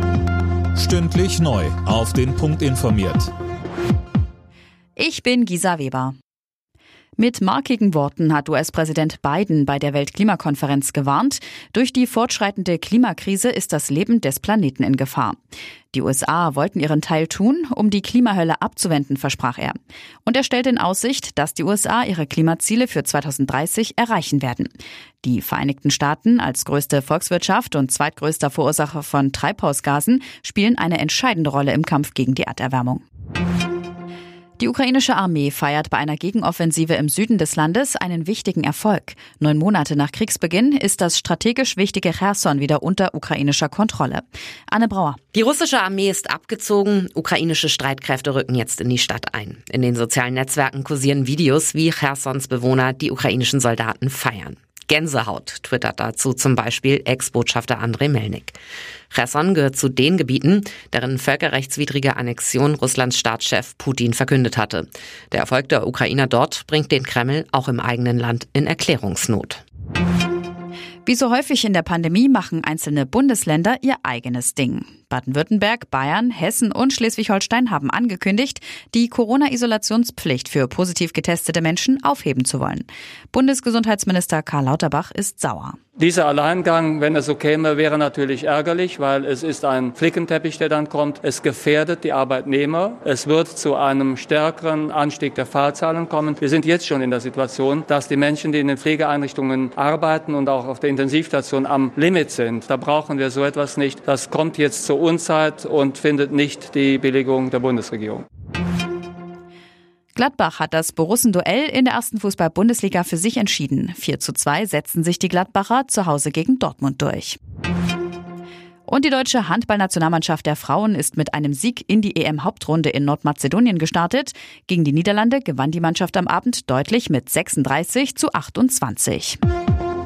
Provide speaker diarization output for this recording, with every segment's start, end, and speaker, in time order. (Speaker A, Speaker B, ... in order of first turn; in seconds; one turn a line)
Speaker A: 0.7-3.3
Speaker B: 5.0-6.1
Speaker B: 7.2-15.4
Speaker B: 15.9-24.7
Speaker B: 25.2-33.0
Speaker B: 34.6-45.2
Speaker C: 45.3-58.6
Speaker C: 59.1-69.6
Speaker B: 71.0-85.8
Speaker D: 86.0-108.2
Speaker B: 110.1-117.4
Speaker B: 118.9-129.4